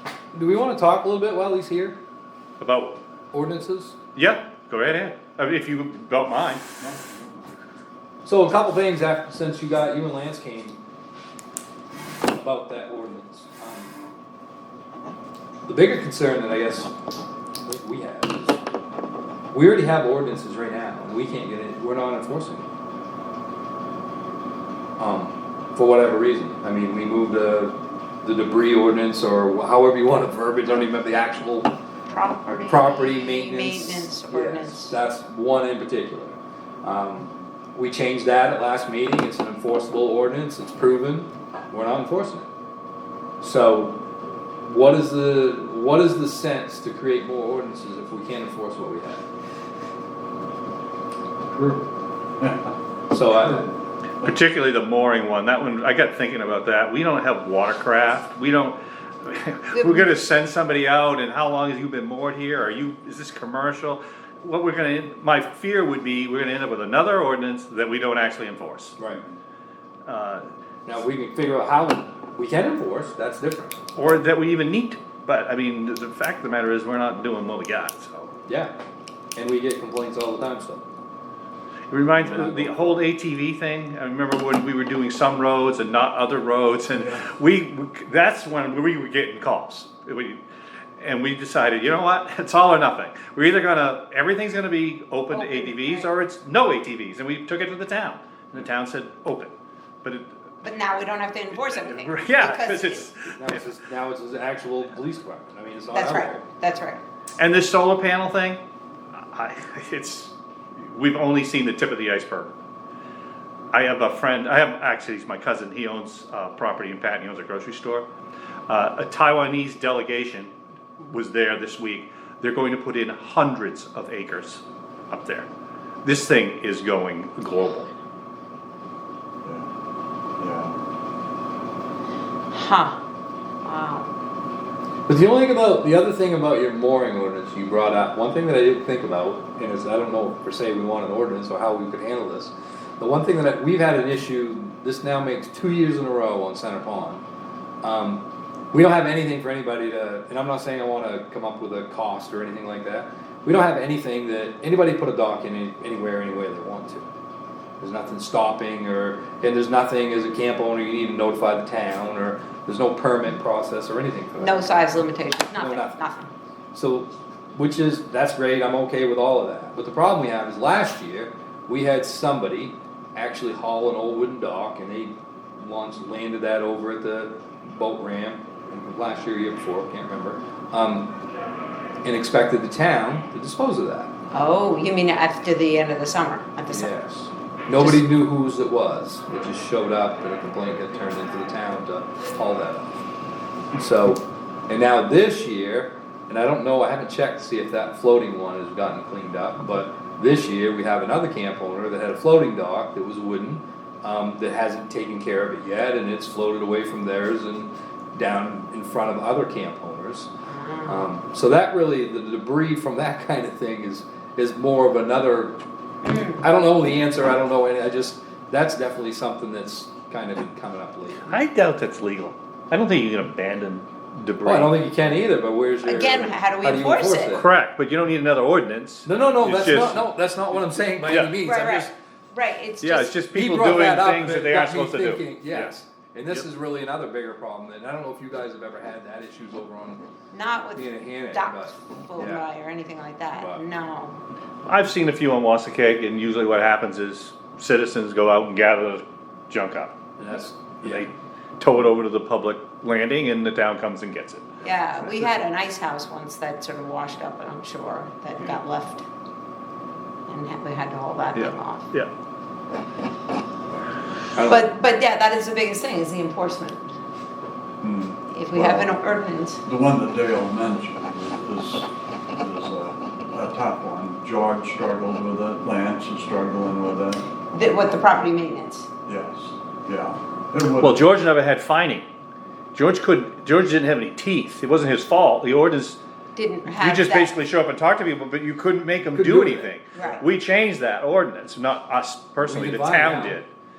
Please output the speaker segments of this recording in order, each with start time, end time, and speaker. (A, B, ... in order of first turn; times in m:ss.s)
0:00.3-0:02.0 A
0:02.6-0:03.0 B
0:03.3-0:04.0 A
0:04.1-0:06.7 B
0:06.8-0:07.1 C
0:08.2-0:10.8 A
0:12.3-0:13.9 A
0:15.6-0:16.9 A
0:17.6-0:18.6 A
0:19.5-0:22.6 A
0:25.0-0:31.7 A
0:32.1-0:35.0 D
0:32.6-0:42.5 A
0:43.4-0:44.0 A
0:44.6-0:49.2 A
0:53.1-0:53.7 A
0:54.2-1:09.0 B
0:59.7-1:00.1 D
1:10.0-1:10.4 B
1:10.8-1:13.8 A
1:14.0-1:18.3 B
1:18.5-1:18.7 A
1:19.3-1:20.8 A
1:21.9-1:30.4 B
1:22.2-1:23.0 A
1:26.9-1:27.3 C
1:31.0-1:39.5 B
1:35.3-1:36.1 D
1:40.6-1:43.0 D
1:41.7-1:43.7 B
1:43.4-1:46.4 A
1:45.9-1:47.0 D
1:47.4-1:48.6 B
1:49.1-1:52.5 B
1:53.7-1:58.1 B
1:58.7-2:05.5 B
2:06.0-2:07.9 B
2:10.4-2:10.7 C
2:12.5-2:13.0 D
2:13.6-2:14.1 D
2:15.1-2:27.2 A
2:27.8-2:37.0 A
2:37.8-2:44.7 A
2:44.4-2:46.3 D
2:45.5-2:46.0 A
2:46.7-3:01.1 A
3:02.0-3:04.1 A
3:04.3-3:06.9 D
3:06.7-3:12.9 A
3:13.8-3:30.3 A
3:30.5-3:31.1 D
3:30.8-3:35.6 A
3:36.0-3:36.4 D
3:36.2-3:41.4 A
3:41.3-3:44.8 B
3:44.4-3:47.5 A
3:45.8-3:47.4 D
3:47.3-3:50.0 B
3:49.0-3:51.9 A
3:51.1-3:51.5 B
3:51.4-3:53.1 D
3:52.8-3:55.7 B
3:53.3-4:00.0 A
4:00.3-4:04.2 D
4:00.7-4:02.5 A
4:03.3-4:03.6 A
4:04.6-4:09.9 B
4:10.2-4:11.1 A
4:10.8-4:14.4 B
4:14.6-4:19.0 D
4:15.0-4:15.3 B
4:20.3-4:21.8 D
4:21.3-4:22.1 B
4:24.3-4:24.7 A
4:24.4-4:26.8 D
4:27.8-4:28.9 C
4:28.3-4:29.6 D
4:29.6-4:37.2 C
4:37.5-4:38.9 D
4:39.0-4:41.0 C
4:40.8-4:42.1 B
4:42.7-4:46.0 B
4:46.4-4:47.3 D
4:46.6-4:53.5 B
4:49.1-4:49.7 A
4:49.9-4:50.2 D
4:50.0-4:50.2 C
4:52.4-4:53.4 A